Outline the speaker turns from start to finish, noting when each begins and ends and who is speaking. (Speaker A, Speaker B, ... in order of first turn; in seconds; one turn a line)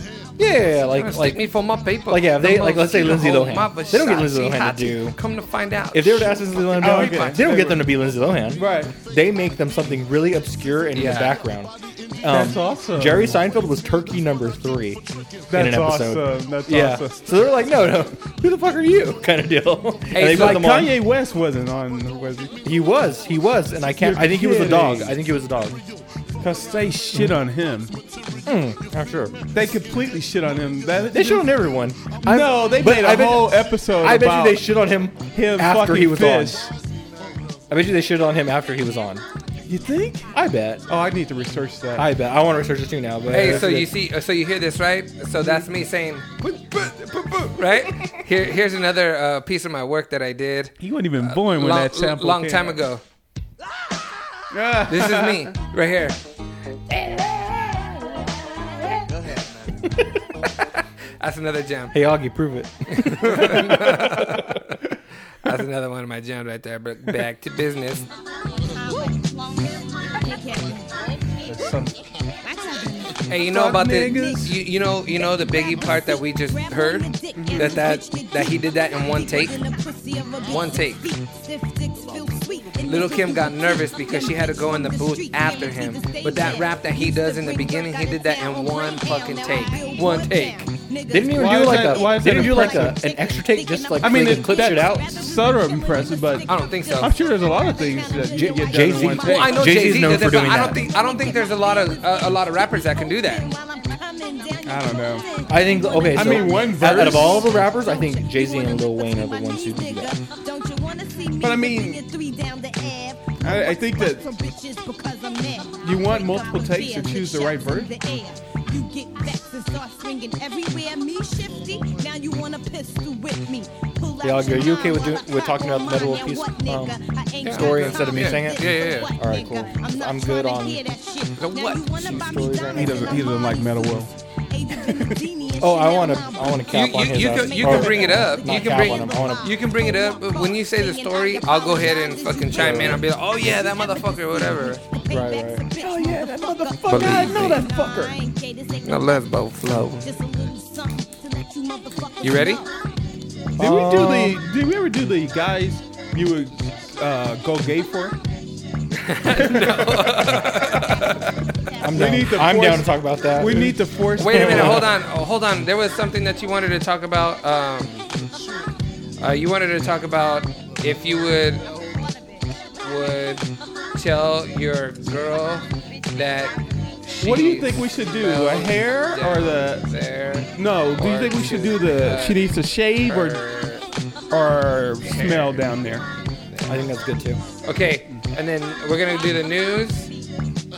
Speaker A: 0.4-1.5
Speaker B: 0.9-7.6
Speaker A: 2.1-5.2
Speaker A: 5.9-21.0
Speaker C: 6.8-8.9
Speaker B: 10.9-11.4
Speaker C: 12.2-13.5
Speaker C: 15.5-17.3
Speaker B: 20.1-20.7
Speaker C: 20.2-22.6
Speaker A: 22.6-25.8
Speaker C: 24.0-25.2
Speaker C: 26.4-27.9
Speaker A: 28.4-29.4
Speaker C: 29.5-31.6
Speaker A: 31.1-36.6
Speaker C: 32.2-34.8
Speaker C: 35.3-36.7
Speaker A: 37.7-39.2
Speaker C: 39.7-40.3
Speaker A: 40.3-40.8
Speaker C: 40.9-42.1
Speaker A: 42.0-43.9
Speaker B: 43.3-46.3
Speaker C: 45.4-45.7
Speaker C: 46.4-47.9
Speaker B: 47.5-53.0
Speaker C: 50.8-52.8
Speaker C: 54.5-55.5
Speaker B: 54.9-56.2
Speaker B: 56.9-57.4
Speaker B: 59.1-59.4
Speaker B: 61.2-62.0
Speaker A: 61.9-63.6
Speaker B: 62.9-64.8
Speaker C: 63.5-64.2
Speaker B: 65.4-68.0
Speaker D: 68.6-71.9
Speaker C: 71.4-71.9
Speaker D: 72.4-73.2
Speaker B: 73.3-79.6
Speaker C: 73.5-74.5
Speaker D: 73.9-149.4
Speaker C: 77.3-77.8
Speaker B: 80.4-81.1
Speaker B: 82.8-90.7
Speaker A: 91.1-95.2
Speaker C: 91.3-93.0
Speaker C: 94.0-99.6
Speaker B: 96.5-97.1
Speaker A: 98.3-100.8
Speaker B: 99.2-103.5
Speaker C: 104.6-105.2
Speaker A: 105.5-110.2
Speaker C: 106.1-107.5
Speaker C: 111.4-112.0
Speaker C: 113.4-114.3
Speaker C: 115.8-117.9
Speaker A: 124.2-130.8
Speaker B: 127.4-129.1
Speaker B: 131.4-132.1
Speaker A: 131.9-133.1
Speaker C: 132.7-134.1
Speaker C: 134.8-135.2
Speaker A: 135.6-139.5
Speaker B: 136.7-144.8
Speaker A: 142.6-143.0
Speaker A: 145.1-145.6
Speaker C: 145.7-148.2
Speaker B: 146.9-147.6
Speaker B: 148.8-150.2
Speaker D: 150.0-152.7
Speaker B: 152.2-152.6
Speaker A: 153.6-154.4
Speaker C: 153.6-158.2
Speaker B: 159.0-161.4
Speaker C: 159.2-160.5
Speaker A: 161.8-164.9
Speaker C: 161.9-164.9
Speaker B: 164.2-168.1
Speaker B: 169.2-171.7
Speaker D: 171.7-172.6
Speaker B: 172.8-176.5
Speaker D: 175.9-176.5
Speaker B: 177.1-182.5
Speaker C: 177.2-179.9
Speaker C: 180.5-183.4
Speaker B: 183.0-183.8
Speaker C: 184.3-186.0
Speaker B: 185.1-186.0
Speaker B: 186.5-186.9
Speaker A: 186.7-187.4
Speaker B: 187.6-190.1
Speaker D: 189.1-189.7